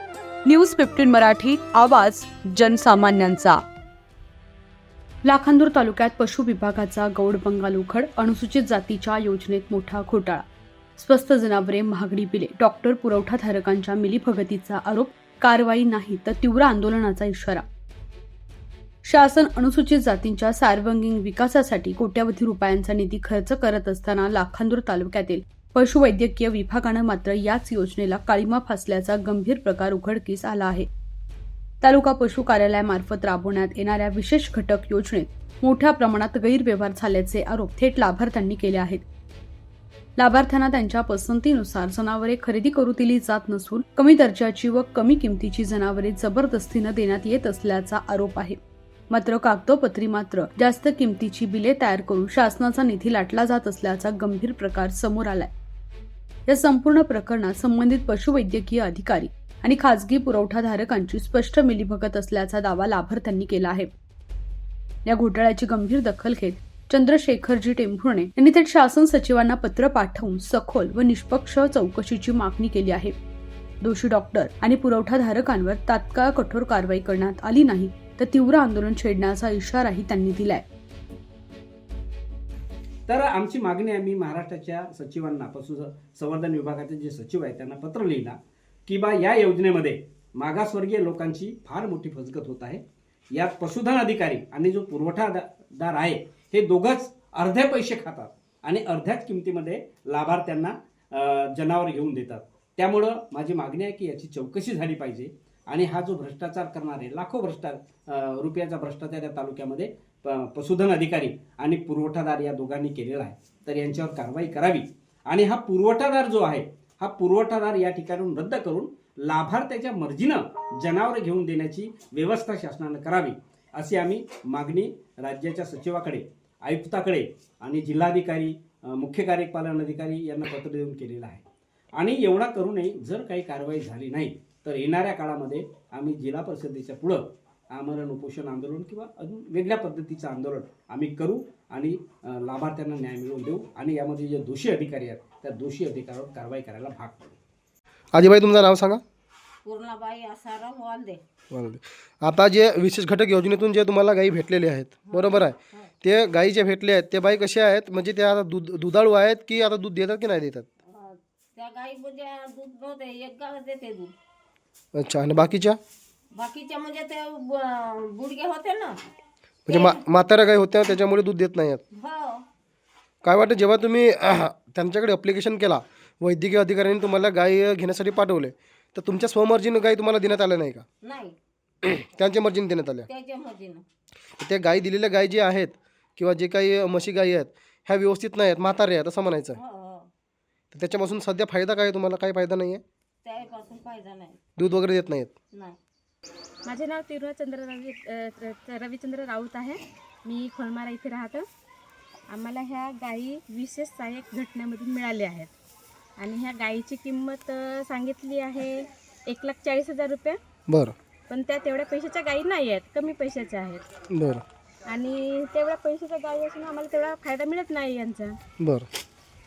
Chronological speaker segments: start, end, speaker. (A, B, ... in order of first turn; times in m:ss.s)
0:00.4-0:03.6 A
0:05.2-0:10.4 A
0:11.0-0:17.6 A
0:19.0-0:30.9 A
0:31.8-0:39.0 A
0:40.2-0:48.6 A
0:49.1-0:55.5 A
0:56.5-1:03.9 A
1:05.0-1:13.1 A
1:13.8-1:20.6 A
1:23.1-2:11.4 B
2:12.0-2:27.3 B
2:28.1-2:29.0 C
2:29.6-2:31.2 D
2:31.5-2:40.7 C
2:35.0-2:35.9 D
2:40.8-2:44.1 D
2:44.9-2:45.8 C
2:46.3-2:49.0 D
2:49.6-2:51.8 C
2:49.7-2:50.0 D
2:51.9-2:52.4 D
2:53.2-3:00.8 C
3:01.0-3:01.4 D
3:01.8-3:03.1 C
3:03.0-3:03.8 D
3:04.4-3:09.6 C
3:09.5-3:10.1 D
3:10.7-3:12.8 C
3:13.2-3:14.4 D
3:14.6-3:15.3 C
3:15.5-3:15.8 D
3:16.6-3:21.4 E
3:22.3-3:25.5 E
3:26.2-3:30.4 E
3:30.7-3:30.9 C
3:31.3-3:33.8 E
3:34.1-3:34.4 C
3:34.8-3:38.4 E
3:38.6-3:38.9 C